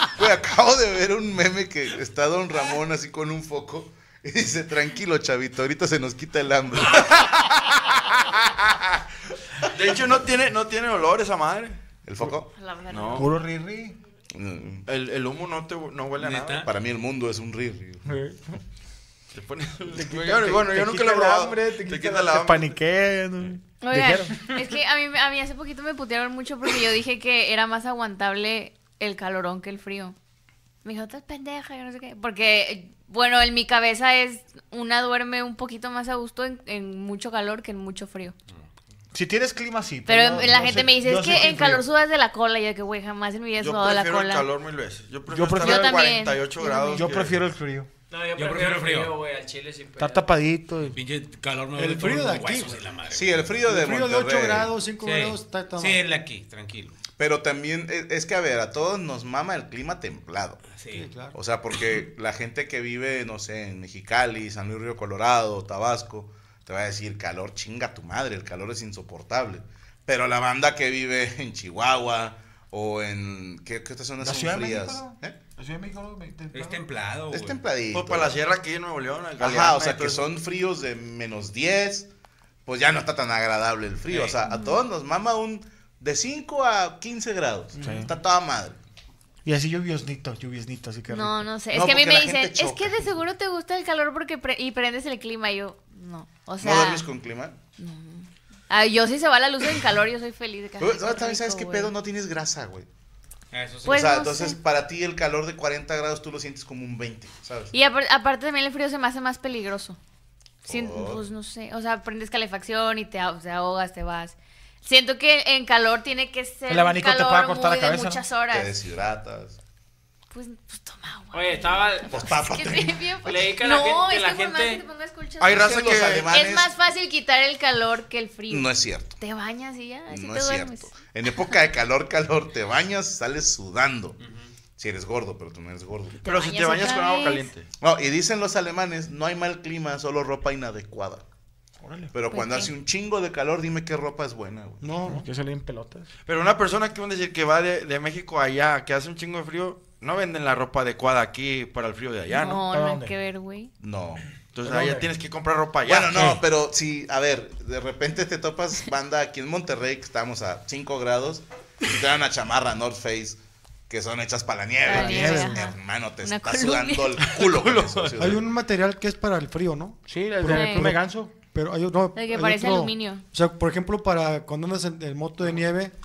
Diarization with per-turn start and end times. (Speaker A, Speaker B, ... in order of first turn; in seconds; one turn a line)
Speaker A: 0.1-9.0
Speaker B: 9.7-11.8
Speaker A: 12.1-12.5
Speaker C: 12.5-13.3
Speaker B: 12.9-13.3
Speaker D: 13.2-14.0
Speaker A: 14.3-14.9
Speaker B: 14.9-16.6
Speaker E: 16.2-16.7
Speaker A: 16.6-18.1
Speaker D: 18.1-18.6
Speaker B: 19.3-22.8
Speaker D: 19.9-24.4
Speaker C: 23.8-30.2
Speaker C: 30.8-38.4
Speaker D: 39.1-41.8
Speaker C: 40.1-44.5
Speaker B: 43.6-47.5
Speaker D: 45.3-46.1
Speaker C: 45.6-47.1
Speaker D: 47.0-47.9
Speaker F: 48.1-50.2
Speaker E: 48.4-49.1
Speaker D: 50.0-51.0
Speaker E: 50.9-53.6
Speaker G: 51.8-52.8
Speaker A: 53.1-54.7
Speaker G: 53.6-56.0
Speaker E: 55.0-57.0
Speaker A: 57.2-60.6
Speaker E: 60.7-61.1
Speaker G: 60.9-61.4
Speaker A: 61.3-75.4
Speaker D: 74.2-76.8
Speaker E: 76.5-77.6
Speaker A: 77.3-78.4
Speaker B: 77.9-80.3
Speaker A: 79.4-82.1
Speaker A: 82.7-88.8
Speaker E: 84.1-84.4
Speaker C: 84.5-84.8
Speaker D: 87.8-88.1
Speaker D: 89.5-91.5
Speaker C: 91.1-97.1
Speaker A: 91.7-93.1
Speaker A: 96.6-97.6
Speaker C: 97.8-101.9
Speaker A: 100.8-102.9
Speaker E: 103.5-104.1
Speaker C: 103.9-104.6
Speaker A: 103.9-107.7
Speaker C: 107.7-110.0
Speaker A: 110.7-111.2
Speaker C: 110.7-118.8
Speaker D: 116.7-118.2
Speaker A: 118.5-119.6
Speaker C: 120.3-125.6
Speaker F: 121.3-122.2
Speaker A: 122.1-123.5
Speaker F: 123.2-124.8
Speaker B: 125.4-126.3
Speaker A: 125.4-126.7
Speaker C: 126.3-130.9
Speaker A: 128.5-129.2
Speaker A: 130.1-134.2
Speaker E: 134.2-134.5
Speaker A: 134.8-136.2
Speaker B: 136.2-137.7
Speaker C: 136.2-137.5
Speaker A: 137.8-141.2
Speaker D: 141.8-142.1
Speaker A: 142.1-144.9
Speaker C: 142.3-142.7
Speaker G: 144.8-145.3
Speaker D: 145.1-146.1
Speaker B: 146.3-152.6
Speaker C: 152.3-153.7
Speaker D: 152.4-153.1
Speaker A: 153.8-154.2
Speaker B: 154.5-156.4
Speaker D: 154.6-155.1
Speaker A: 155.8-163.4
Speaker A: 163.9-168.5
Speaker C: 164.8-167.5
Speaker G: 164.9-165.6
Speaker G: 168.2-175.9
Speaker D: 170.1-171.3
Speaker C: 170.5-170.9
Speaker C: 172.2-173.2